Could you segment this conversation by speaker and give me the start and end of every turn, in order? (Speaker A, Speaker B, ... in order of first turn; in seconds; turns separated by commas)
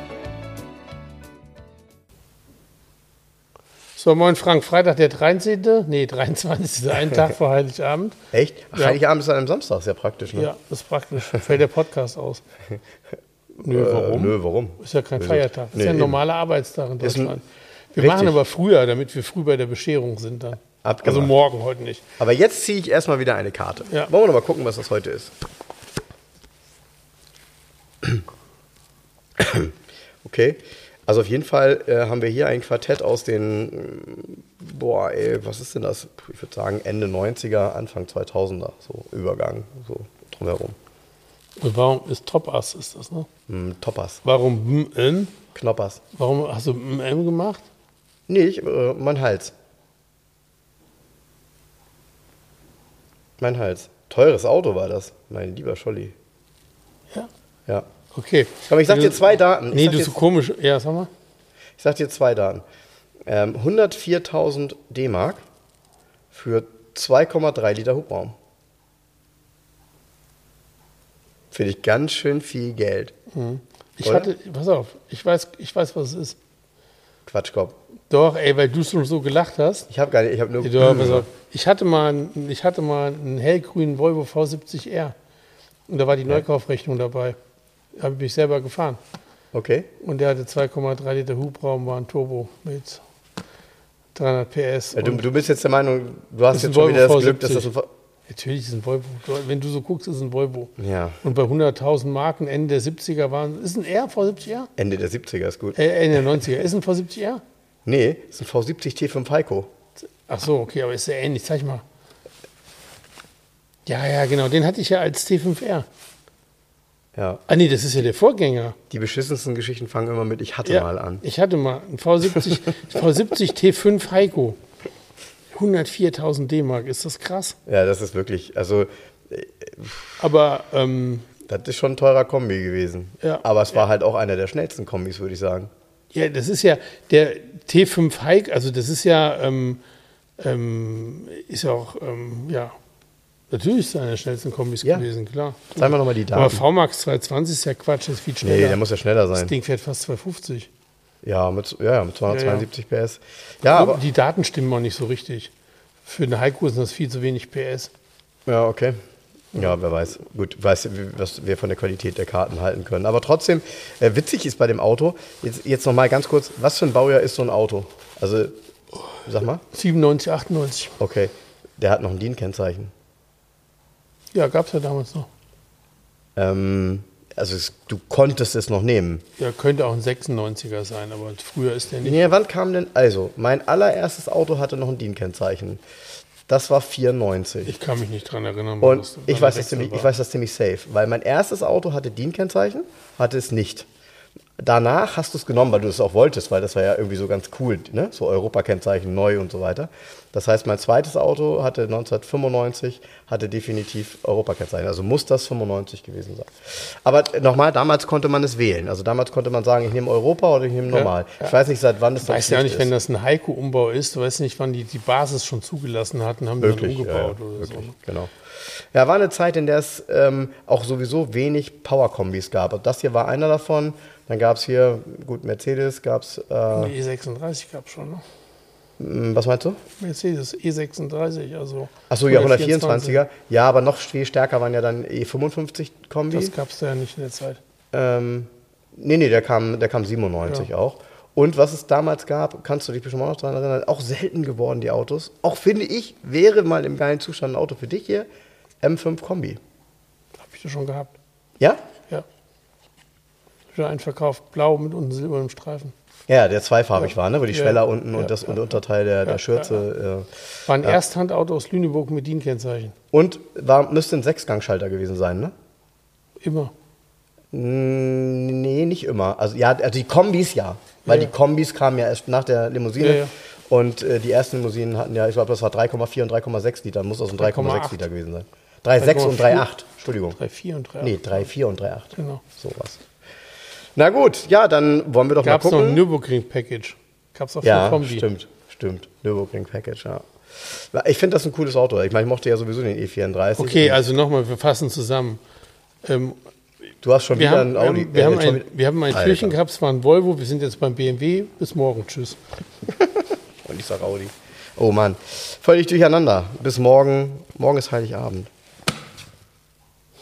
Speaker A: 4.0-8.2, Speaker B: 8.3-10.5, Speaker A: 8.7-9.0, Speaker A: 10.3-12.4, Speaker B: 13.6-16.2, Speaker A: 13.6-22.0, Speaker B: 17.0-17.3, Speaker B: 18.0-18.4, Speaker B: 20.8-21.3, Speaker B: 22.2-25.3, Speaker B: 29.4-29.7, Speaker B: 30.2-40.8, Speaker A: 41.6-43.3, Speaker B: 43.5-44.2, Speaker A: 44.2-45.3, Speaker B: 45.5-46.0, Speaker A: 46.1-47.6, Speaker B: 48.3-49.5, Speaker B: 53.4-56.1, Speaker A: 58.1-61.1, Speaker B: 58.7-60.2, Speaker B: 61.8-62.6, Speaker B: 63.3-65.4, Speaker B: 66.3-68.3, Speaker B: 71.5-73.1, Speaker A: 73.3-76.4, Speaker B: 74.0-74.3, Speaker B: 77.3-77.8, Speaker A: 78.1-79.9, Speaker B: 79.9-81.3, Speaker A: 80.6-85.1, Speaker A: 85.9-87.4, Speaker A: 88.0-89.0, Speaker B: 89.5-89.9, Speaker A: 90.0-93.0, Speaker A: 94.1-95.2, Speaker B: 94.9-97.9, Speaker A: 96.5-97.7, Speaker A: 98.3-104.7, Speaker B: 100.8-101.2, Speaker B: 104.8-106.4, Speaker A: 105.8-107.4, Speaker B: 107.8-109.7, Speaker A: 110.2-111.8, Speaker A: 113.8-115.8, Speaker B: 117.2-117.4, Speaker A: 117.5-118.8, Speaker B: 118.9-121.2, Speaker A: 120.6-124.6, Speaker A: 125.5-127.6, Speaker B: 127.7-130.2, Speaker A: 130.2-131.3, Speaker B: 131.4-135.7, Speaker A: 133.2-133.4, Speaker A: 136.1-139.8, Speaker A: 140.4-142.8, Speaker A: 143.5-148.8, Speaker B: 144.8-145.1, Speaker B: 145.8-146.7, Speaker B: 148.4-149.5, Speaker A: 149.3-150.7, Speaker B: 151.2-154.0, Speaker A: 152.3-152.7, Speaker A: 153.7-155.5, Speaker A: 156.0-157.9, Speaker B: 158.5-159.0, Speaker B: 159.5-168.5, Speaker B: 169.2-169.6, Speaker A: 169.7-170.9, Speaker B: 171.0-172.9, Speaker A: 174.3-175.3, Speaker B: 176.3-179.2, Speaker A: 179.4-182.2, Speaker B: 182.0-185.8, Speaker B: 186.5-187.7, Speaker A: 187.6-190.1, Speaker B: 188.8-193.9, Speaker B: 194.6-212.9, Speaker A: 210.9-211.6, Speaker A: 212.2-217.9, Speaker B: 216.6-218.3, Speaker B: 218.9-226.9, Speaker A: 226.7-228.2, Speaker B: 229.0-229.8, Speaker A: 230.0-233.2, Speaker B: 232.1-236.5, Speaker A: 236.3-237.6, Speaker B: 237.9-248.3, Speaker B: 248.8-249.6, Speaker A: 250.4-251.1, Speaker A: 253.7-255.9, Speaker B: 256.3-260.3, Speaker A: 257.0-259.8, Speaker A: 260.7-262.9, Speaker B: 263.1-265.5, Speaker A: 266.4-266.7, Speaker B: 267.5-280.4, Speaker A: 271.1-271.3, Speaker A: 273.0-273.3, Speaker A: 277.4-278.0, Speaker A: 279.0-279.7, Speaker A: 280.3-281.3, Speaker B: 281.0-283.0, Speaker A: 282.1-282.4, Speaker B: 283.9-286.0, Speaker A: 285.4-288.3, Speaker B: 287.6-294.0, Speaker A: 293.6-295.4, Speaker A: 296.0-296.4, Speaker B: 297.0-299.6, Speaker A: 297.3-302.4, Speaker B: 303.6-308.5